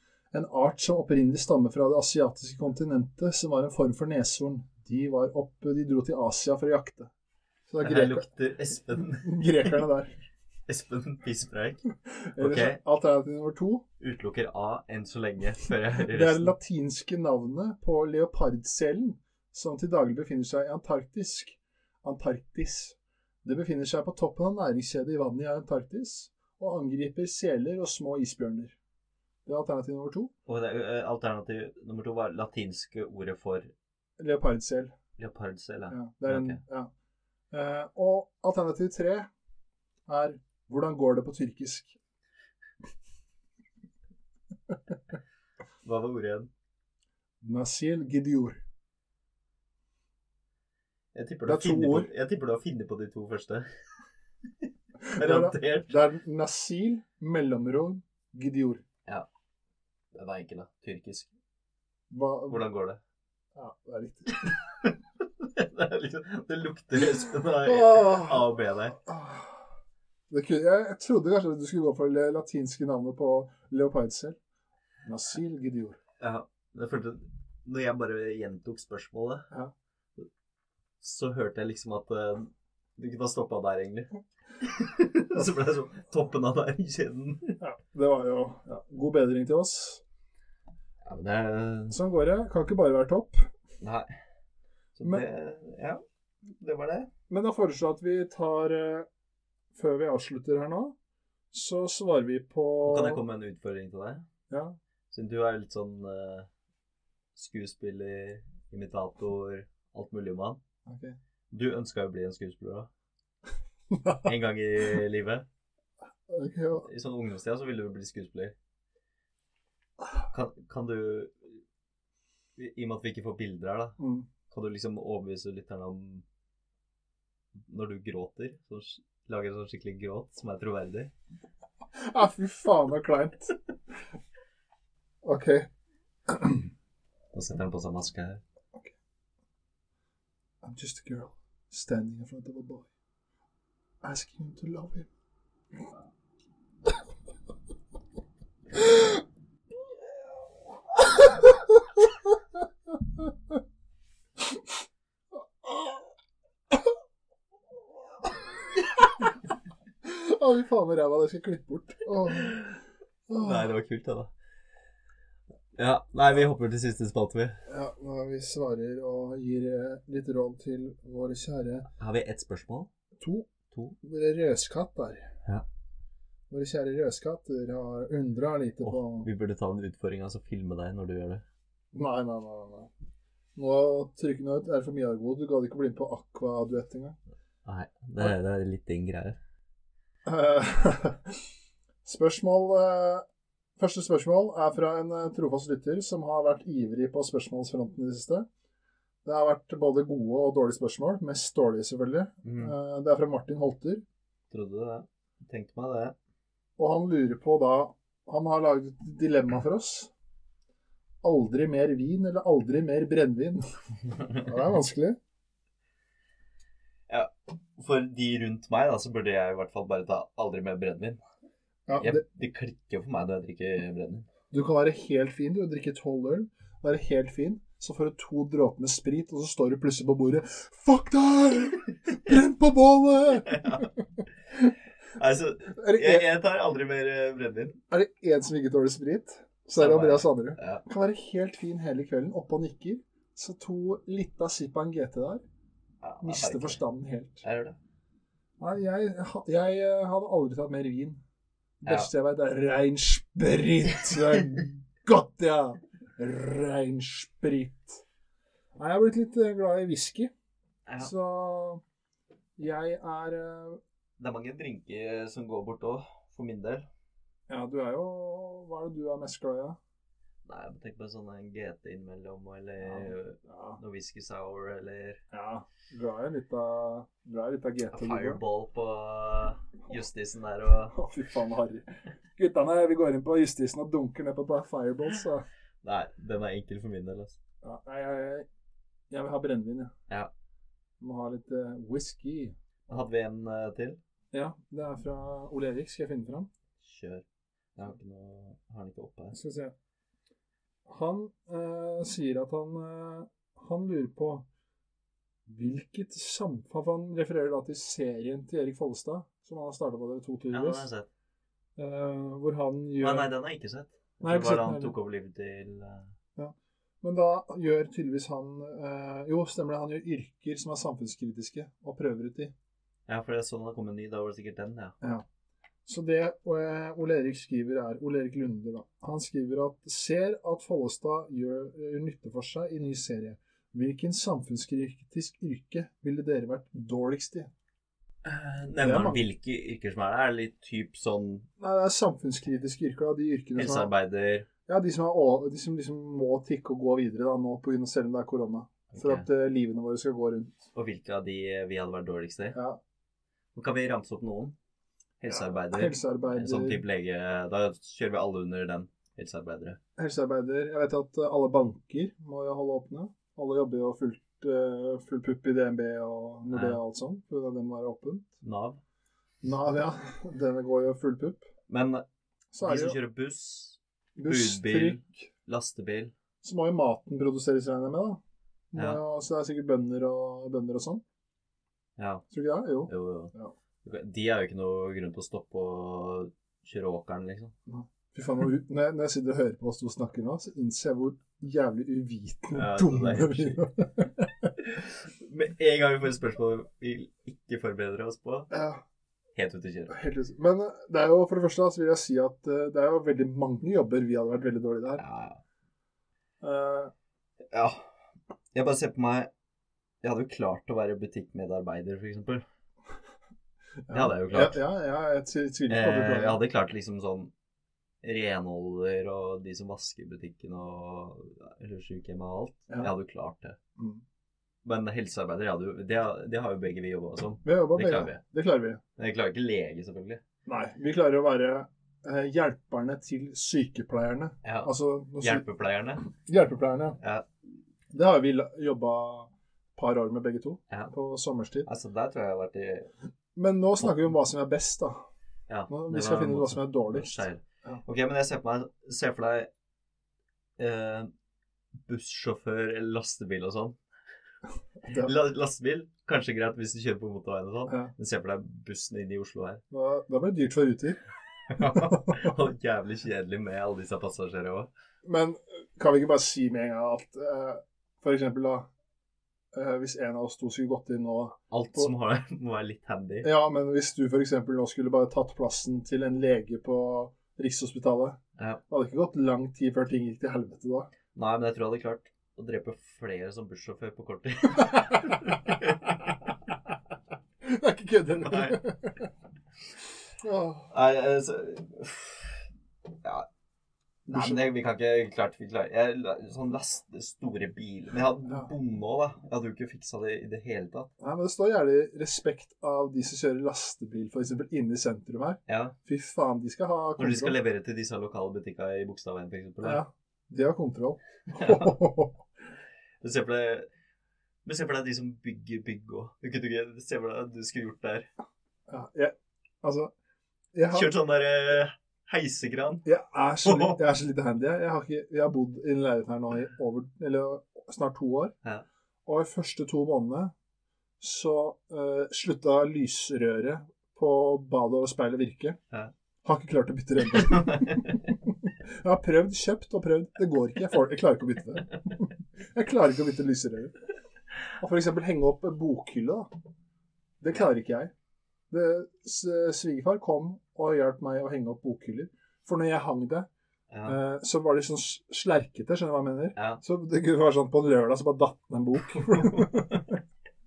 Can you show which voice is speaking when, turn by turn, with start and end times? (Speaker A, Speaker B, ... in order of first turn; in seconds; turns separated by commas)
Speaker A: 0.3-7.1, Speaker A: 7.7-8.3, Speaker B: 7.8-9.8, Speaker A: 9.2-10.2, Speaker B: 10.7-11.8, Speaker A: 12.1-13.8, Speaker B: 12.4-12.8, Speaker B: 14.0-16.5, Speaker A: 16.1-28.8, Speaker A: 29.4-30.3, Speaker B: 30.5-33.7, Speaker A: 34.2-34.9, Speaker B: 35.2-36.6, Speaker A: 35.9-36.9, Speaker A: 37.5-39.3, Speaker A: 40.0-42.0, Speaker B: 45.8-46.5, Speaker A: 47.4-48.6, Speaker B: 51.1-53.7, Speaker A: 51.5-52.1, Speaker A: 55.0-58.8, Speaker B: 55.1-55.9, Speaker B: 60.1-61.3, Speaker A: 62.1-62.6, Speaker B: 62.5-63.0, Speaker A: 63.5-64.5, Speaker B: 64.5-69.0, Speaker A: 67.6-68.5, Speaker A: 69.0-69.6, Speaker A: 70.3-74.4, Speaker A: 75.0-76.0, Speaker B: 76.2-79.5, Speaker B: 81.0-87.6, Speaker A: 87.6-90.0, Speaker B: 91.0-92.0, Speaker A: 91.9-93.5, Speaker B: 93.8-94.1, Speaker B: 95.0-96.0, Speaker B: 96.6-97.1, Speaker A: 97.3-99.1, Speaker A: 99.7-100.9, Speaker A: 101.5-103.2, Speaker B: 102.8-104.2, Speaker A: 104.5-104.8, Speaker B: 105.1-106.5, Speaker B: 107.3-110.6, Speaker A: 110.8-111.2, Speaker B: 111.5-112.9, Speaker A: 113.9-114.2, Speaker B: 114.2-115.4, Speaker A: 116.3-116.9, Speaker B: 116.8-118.5, Speaker B: 120.3-121.6, Speaker B: 122.6-124.0, Speaker A: 124.0-124.3, Speaker B: 124.5-126.2, Speaker B: 127.7-131.1, Speaker A: 131.9-133.6, Speaker A: 135.2-135.7, Speaker A: 136.3-136.7, Speaker B: 137.3-138.4, Speaker A: 140.6-142.9, Speaker A: 144.0-145.1, Speaker A: 148.7-149.2, Speaker A: 150.9-152.3, Speaker A: 155.6-156.1, Speaker A: 158.2-159.3, Speaker A: 160.0-162.6, Speaker B: 162.3-162.7, Speaker A: 163.3-163.7, Speaker B: 163.4-164.3, Speaker B: 165.8-167.6, Speaker A: 167.7-171.9, Speaker B: 171.9-172.9, Speaker A: 173.2-173.5, Speaker B: 173.7-174.0, Speaker A: 174.0-175.3, Speaker A: 176.5-179.3, Speaker B: 178.8-181.4, Speaker A: 181.9-182.9, Speaker A: 183.6-187.2, Speaker B: 187.6-189.4, Speaker A: 190.2-191.4, Speaker A: 192.0-193.2, Speaker A: 193.8-198.4, Speaker A: 199.2-204.0, Speaker B: 202.4-202.7, Speaker B: 204.5-206.1, Speaker A: 206.8-210.1, Speaker A: 211.2-213.6, Speaker A: 214.4-215.2, Speaker B: 217.1-221.2, Speaker A: 221.9-222.2, Speaker B: 222.0-224.3, Speaker A: 224.5-233.9, Speaker B: 233.4-233.9, Speaker B: 235.2-237.8, Speaker A: 235.7-236.3, Speaker A: 237.9-245.4, Speaker B: 239.8-240.8, Speaker B: 246.0-246.8, Speaker A: 246.2-247.4, Speaker B: 247.4-247.8, Speaker A: 248.6-251.2, Speaker A: 251.8-258.0, Speaker B: 251.8-252.1, Speaker A: 258.8-260.3, Speaker B: 260.9-261.1, Speaker A: 261.0-261.8, Speaker A: 262.6-263.8, Speaker B: 264.2-266.9, Speaker A: 267.5-269.8, Speaker B: 270.4-275.2, Speaker A: 272.8-273.8, Speaker A: 275.3-278.4, Speaker B: 277.9-280.9, Speaker A: 280.9-285.4, Speaker B: 285.8-287.4, Speaker A: 287.6-288.4, Speaker A: 289.1-289.9, Speaker A: 291.0-292.5, Speaker B: 292.9-294.0, Speaker A: 294.3-296.5, Speaker B: 296.8-297.2, Speaker B: 297.8-299.4, Speaker A: 299.3-299.7, Speaker A: 300.9-304.4, Speaker A: 305.5-310.9, Speaker B: 310.5-311.1, Speaker A: 311.8-313.3, Speaker B: 313.0-316.1, Speaker A: 314.2-314.9, Speaker A: 316.4-322.5, Speaker B: 323.1-324.9, Speaker A: 325.9-337.5, Speaker B: 338.2-341.5, Speaker A: 338.8-339.2, Speaker A: 341.6-343.9, Speaker B: 343.6-344.5, Speaker A: 344.7-350.6, Speaker B: 348.9-349.2, Speaker B: 350.7-352.6, Speaker A: 352.5-352.8, Speaker B: 353.5-354.6, Speaker B: 355.2-359.8, Speaker A: 355.3-356.8, Speaker A: 360.0-368.3, Speaker B: 366.5-366.8, Speaker B: 368.4-368.8, Speaker A: 369.4-371.4, Speaker B: 371.7-372.0, Speaker A: 372.5-373.0, Speaker B: 372.6-376.1, Speaker A: 374.2-375.3, Speaker A: 376.4-378.2, Speaker A: 378.7-381.0, Speaker B: 378.7-379.0, Speaker B: 382.0-382.2, Speaker A: 382.3-383.5, Speaker B: 382.9-383.3, Speaker B: 383.8-387.5, Speaker A: 387.7-394.5, Speaker B: 392.5-393.6, Speaker B: 394.6-398.5, Speaker A: 398.5-398.8, Speaker B: 399.4-399.9, Speaker A: 399.9-405.0, Speaker B: 405.0-405.4, Speaker A: 406.4-406.9, Speaker B: 407.5-407.9, Speaker B: 408.5-409.3, Speaker B: 410.0-412.4, Speaker A: 413.9-416.4, Speaker B: 413.9-414.6, Speaker B: 415.7-417.3, Speaker B: 418.0-423.6, Speaker A: 423.8-424.0, Speaker B: 424.6-428.2, Speaker A: 427.4-428.8, Speaker B: 429.0-430.2, Speaker A: 430.4-435.4, Speaker B: 434.4-436.1, Speaker A: 436.2-437.0, Speaker B: 437.0-437.2, Speaker A: 437.9-441.7, Speaker B: 441.6-442.9, Speaker A: 443.4-445.0, Speaker B: 445.5-449.5, Speaker A: 445.7-447.8, Speaker B: 450.6-451.1, Speaker B: 451.9-453.8, Speaker A: 454.8-455.1, Speaker B: 454.9-459.6, Speaker A: 459.7-461.0, Speaker B: 461.5-464.7, Speaker A: 461.7-462.3, Speaker A: 465.0-468.7, Speaker A: 469.5-471.9, Speaker B: 471.5-473.3, Speaker A: 473.2-480.9, Speaker B: 481.1-485.8, Speaker A: 484.7-485.0, Speaker A: 487.4-489.1, Speaker B: 488.2-488.6, Speaker A: 490.2-490.7, Speaker B: 490.7-492.4, Speaker B: 494.1-500.9, Speaker A: 494.1-494.4, Speaker A: 498.2-498.5, Speaker A: 501.0-507.4, Speaker B: 505.5-505.8, Speaker B: 507.0-509.8, Speaker A: 509.6-512.2, Speaker B: 511.4-511.7, Speaker B: 513.0-513.7, Speaker B: 514.4-518.1, Speaker A: 518.7-519.9, Speaker A: 520.5-520.9, Speaker B: 520.7-522.9, Speaker A: 522.8-528.3, Speaker B: 523.4-523.8, Speaker A: 529.0-530.3, Speaker A: 531.0-535.6, Speaker A: 536.2-543.8, Speaker B: 537.1-538.0, Speaker A: 544.6-546.3, Speaker A: 547.2-547.9, Speaker A: 548.5-553.3, Speaker B: 553.7-554.0, Speaker A: 553.9-559.8, Speaker B: 556.4-556.6, Speaker B: 558.9-559.8